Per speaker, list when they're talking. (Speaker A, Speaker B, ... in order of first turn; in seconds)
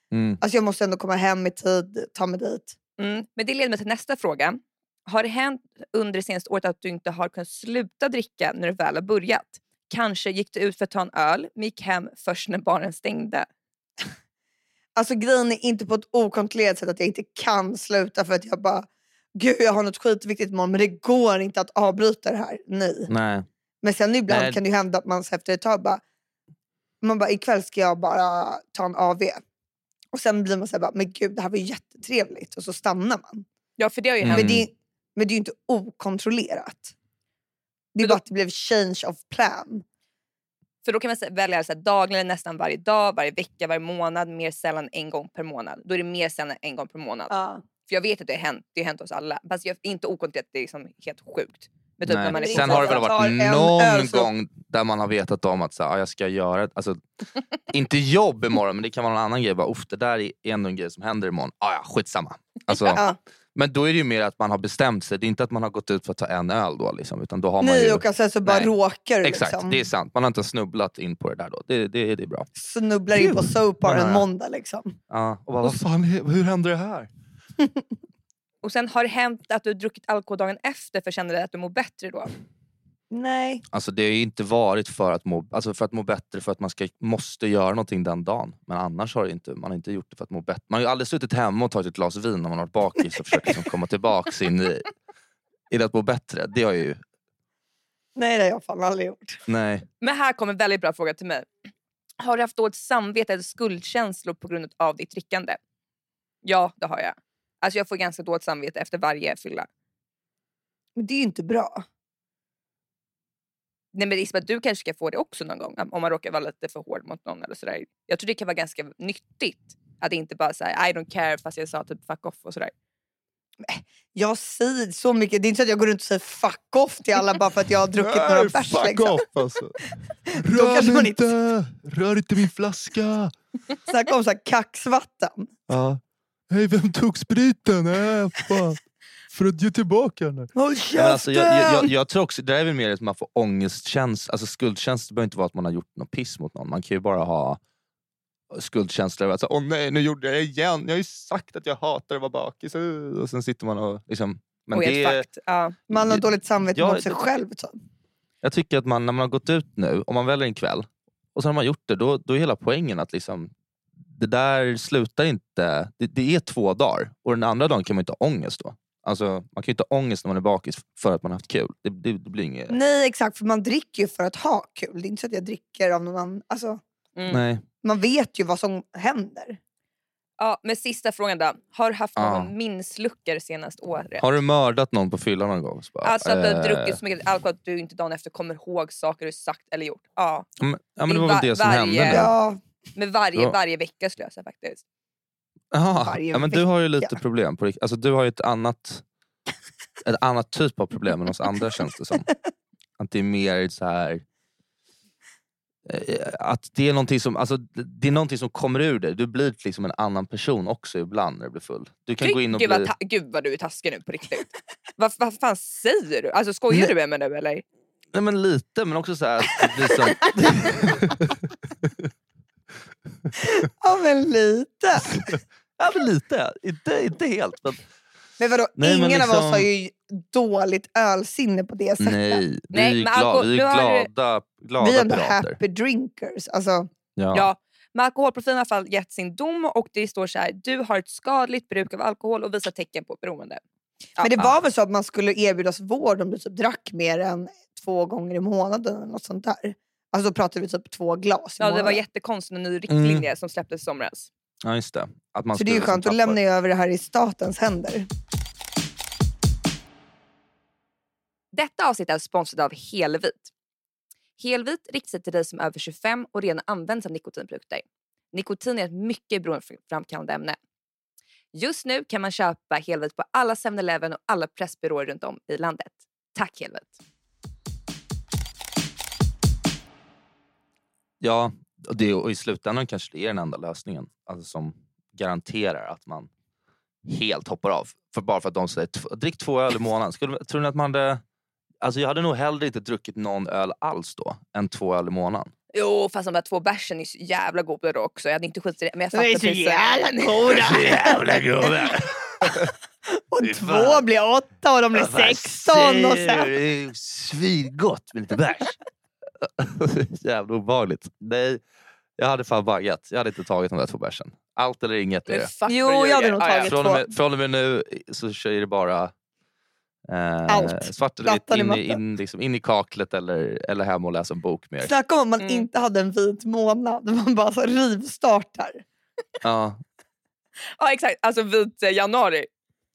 Speaker A: 0.1-0.4, 23.1-23.4, 24.3-24.6, 34.2-34.6, 52.1-57.0, 57.7-63.0, 63.5-68.7, 69.2-72.5, 73.1-74.2, 75.1-77.1, 83.7-94.9, 95.7-97.0, 99.5-99.8, 127.9-133.3, 135.7-138.8, 139.3-147.6, 148.5-155.2, 155.9-157.2, 158.4-163.5, 164.1-172.8, 177.3-177.6, 182.2-182.5, 184.2-187.0, 190.6-192.3, 195.7-199.0, 200.0-202.3, 203.0-204.2, 205.8-212.9, 218.1-222.1, 225.0-227.8, 228.8-229.7, 232.0-235.6, 237.2-237.5, 252.9-253.2, 254.6-256.4, 281.2-286.3, 287.1-291.2, 291.8-295.5, 300.4-302.7, 303.4-304.0, 304.9-308.8, 309.4-311.6, 312.2-315.5, 316.6-319.1, 320.1-324.9, 329.4-329.8
Speaker B: 0.4-2.8, 14.9-23.1, 23.8-26.0, 27.0-29.4, 30.1-33.4, 34.3-36.9, 37.9-39.8, 47.3-47.6, 52.3-54.3, 62.9-63.2, 67.6-69.8, 72.6-75.0, 83.1-83.6, 98.2-99.4, 111.0-111.8, 123.6-129.2, 130.3-131.2, 133.9-135.5, 140.5-141.9, 155.9-157.8, 172.7-176.8, 177.8-179.6, 192.1-192.6, 196.0-197.1, 223.4-225.1, 228.4-232.4, 234.8-236.9, 244.2-252.0, 255.5-258.1, 299.1-306.5, 315.7-317.1, 320.5-322.0, 324.8-328.8
Speaker C: 3.0-13.5, 33.8-34.5, 40.8-47.3, 47.9-53.1, 78.6-82.3, 100.0-101.5, 102.2-105.6, 106.4-109.7, 113.9-122.7, 154.7-155.8, 177.2-177.4, 180.4-184.2, 186.0-190.5, 191.1-192.3, 192.9-194.8, 212.2-217.6, 232.7-234.1, 237.3-243.6, 251.6-254.3, 261.5-263.5, 264.4-270.6, 271.5-276.9, 295.7-300.6, 315.3-316.8, 325.4-325.7, 330.8-332.5